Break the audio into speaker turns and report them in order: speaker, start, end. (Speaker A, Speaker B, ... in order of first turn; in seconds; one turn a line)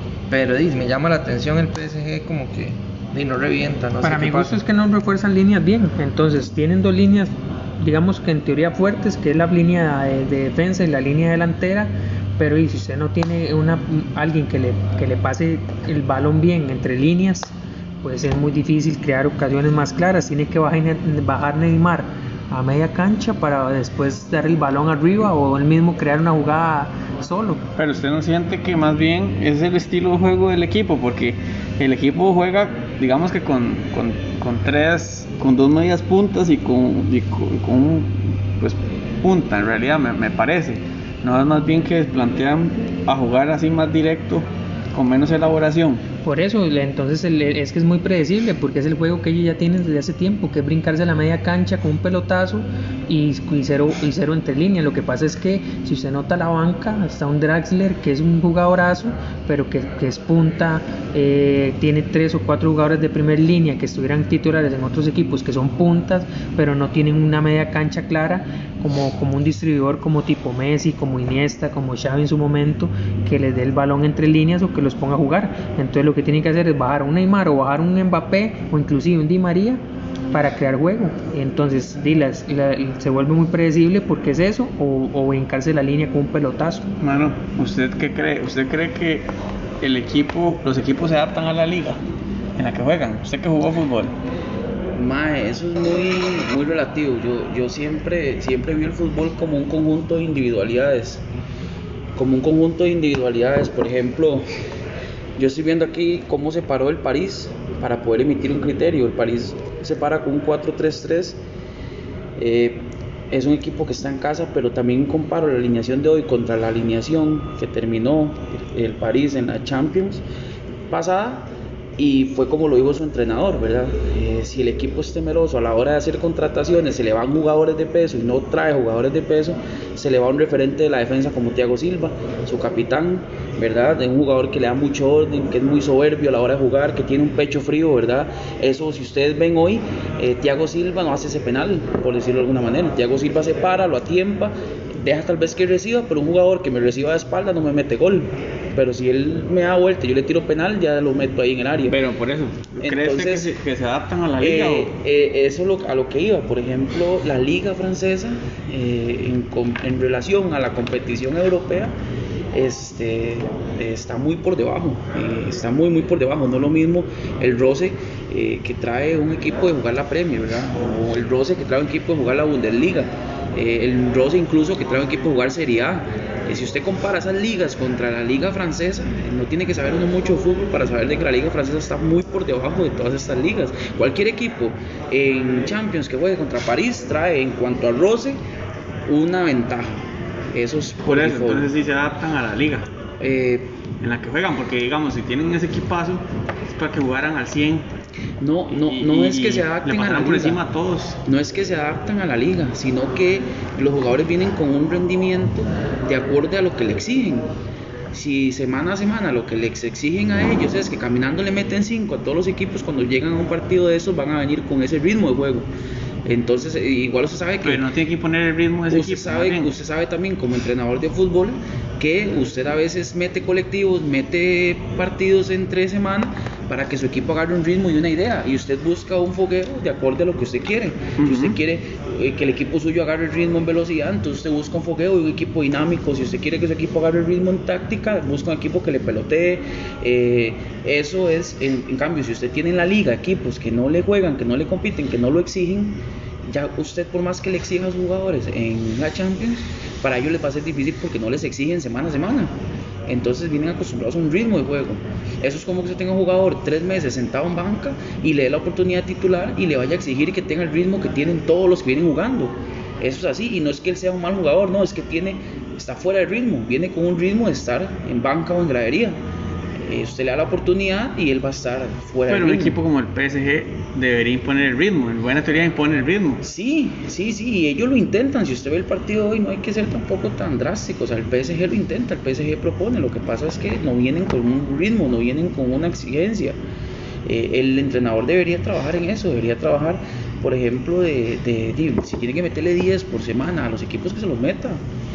Speaker A: 0.3-4.6
Speaker B: 4.0-27.7
Speaker C: 27.8-46.0
Speaker B: 46.2-79.8
Speaker B: 80.3-86.9
Speaker C: 87.0-92.0
Speaker C: 92.6-94.2
Speaker D: 94.9-101.2
Speaker D: 102.2-104.5
Speaker D: 105.4-111.4
Speaker D: 112.4-120.2
Speaker D: 120.9-152.0
Speaker C: 151.9-154.9
Speaker D: 152.8-153.5
Speaker D: 154.4-161.9
Speaker D: 162.5-188.4
Speaker D: 189.1-191.7
Speaker C: 191.0-192.9
Speaker D: 193.2-193.7
Speaker C: 194.0-197.9
Speaker D: 198.4-200.6
Speaker C: 198.7-201.2
Speaker D: 201.2-207.5
Speaker D: 208.1-215.7
Speaker D: 216.2-217.8
Speaker C: 217.6-219.7
Speaker D: 218.9-252.5
Speaker C: 231.2-231.6
Speaker D: 253.1-269.2
Speaker D: 269.8-272.8
Speaker C: 272.3-276.4
Speaker D: 276.4-286.6
Speaker D: 287.2-294.8